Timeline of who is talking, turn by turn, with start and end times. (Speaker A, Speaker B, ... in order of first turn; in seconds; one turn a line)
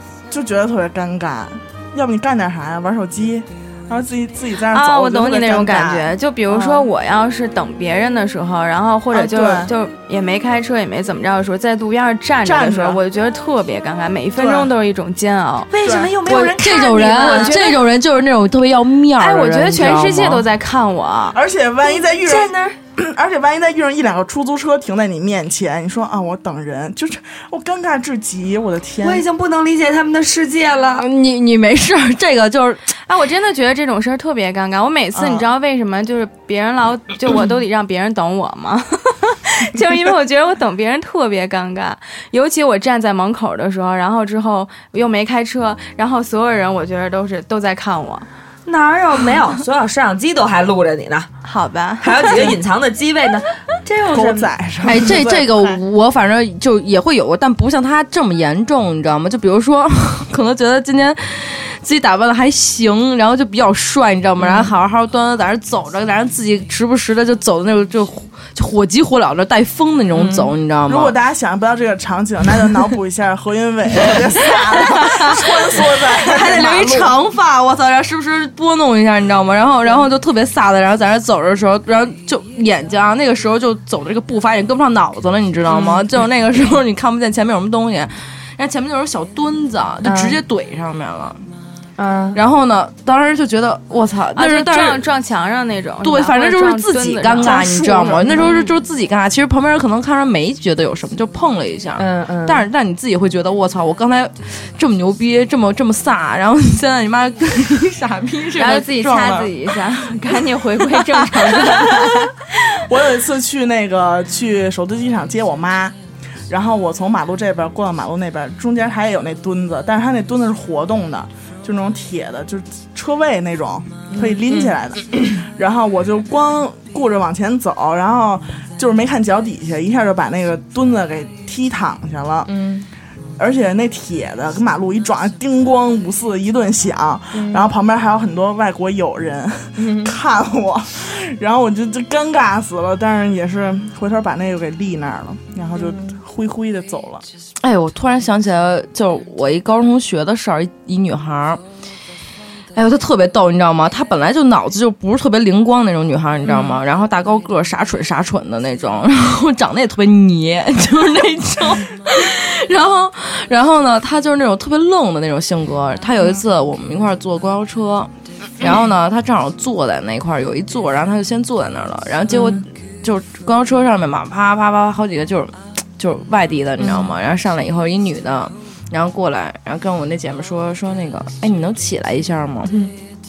Speaker A: 0.3-6.8
Speaker B: 4.7-15.7
Speaker A: 9.1-9.7
Speaker A: 12.4-13.0
Speaker A: 14.4-14.7
Speaker C: 15.7-17.8
Speaker A: 15.8-16.2
Speaker D: 16.2-20.4
Speaker B: 17.0-17.7
Speaker B: 19.2-21.4
Speaker A: 21.3-29.2
Speaker C: 21.9-22.8
Speaker C: 29.0-31.1
Speaker D: 31.0-32.9
Speaker B: 33.1-48.3
Speaker A: 35.1-35.5
Speaker C: 48.7-51.3
Speaker B: 51.4-52.5
Speaker C: 52.0-54.5
Speaker A: 54.1-55.8
Speaker D: 54.8-71.1
Speaker C: 64.4-64.7
Speaker C: 70.1-70.5
Speaker A: 70.9-77.1
Speaker D: 74.8-75.5
Speaker D: 76.1-91.4
Speaker C: 85.7-86.1
Speaker C: 90.0-90.4
Speaker C: 92.0-92.4
Speaker D: 92.3-95.0
Speaker B: 94.4-98.7
Speaker D: 96.0-109.5
Speaker A: 97.5-98.4
Speaker C: 98.3-98.5
Speaker C: 102.0-102.7
Speaker B: 108.6-112.5
Speaker A: 112.7-116.0
Speaker A: 116.5-132.5
Speaker C: 124.1-124.7
Speaker C: 132.5-132.9
Speaker A: 133.4-147.2
Speaker C: 137.3-137.7
Speaker C: 139.8-140.2
Speaker C: 145.8-146.1
Speaker D: 147.6-151.6
Speaker D: 152.8-182.7
Speaker C: 156.5-156.8
Speaker C: 172.3-172.6
Speaker C: 176.8-177.1
Speaker C: 182.7-182.9